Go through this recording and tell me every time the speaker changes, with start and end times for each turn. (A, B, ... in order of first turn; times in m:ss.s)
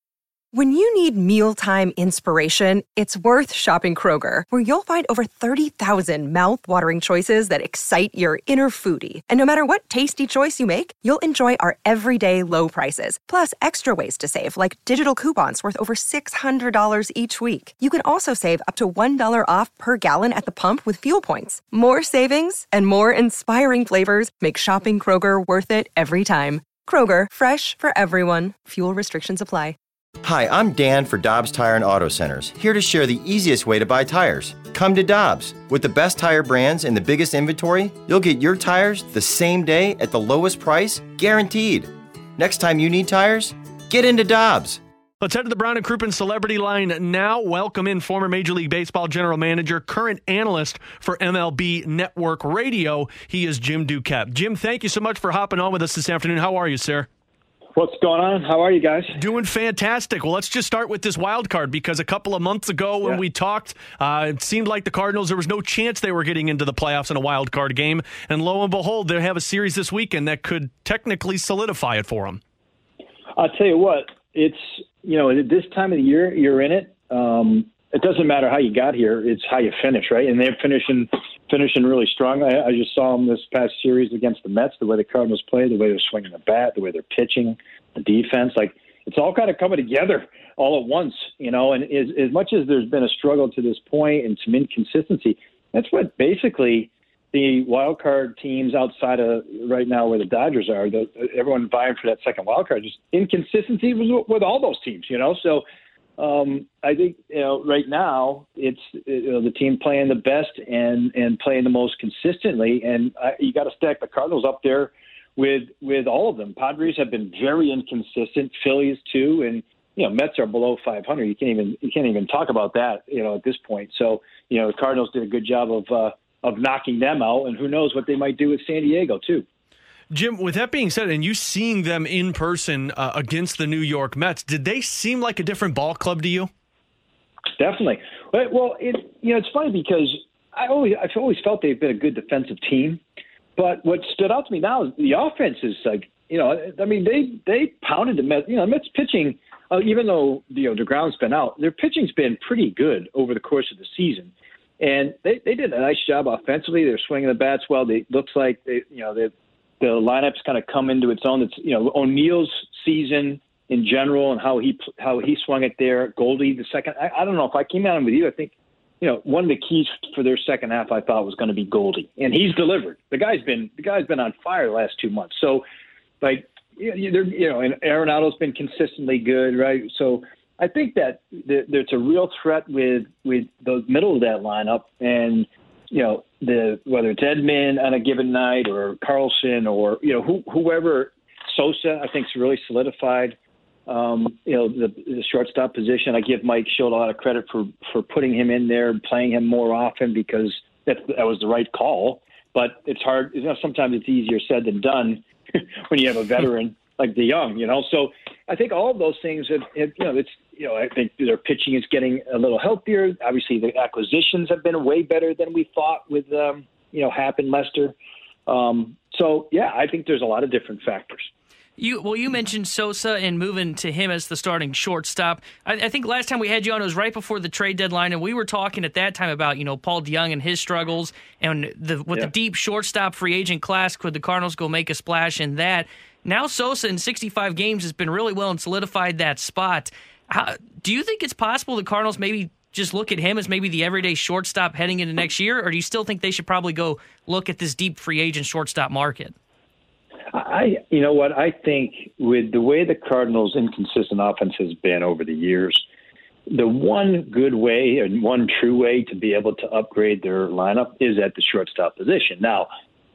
0:00.5-0:29.8 A
0:30.2-0:44.8 B
0:45.2-0:57.1 C
0:57.7-0:59.2 D
0:59.2-1:12.4 C
1:13.3-1:45.6 D
1:46.2-2:09.4 D
2:10.1-2:16.5 C
2:17.5-2:23.0 D
2:23.6-2:55.6 D
2:56.2-3:13.4 D
3:13.9-3:37.9 D
3:38.4-3:41.3 D
3:41.8-4:09.3 E
4:10.3-4:15.8 D
4:16.5-4:22.7 D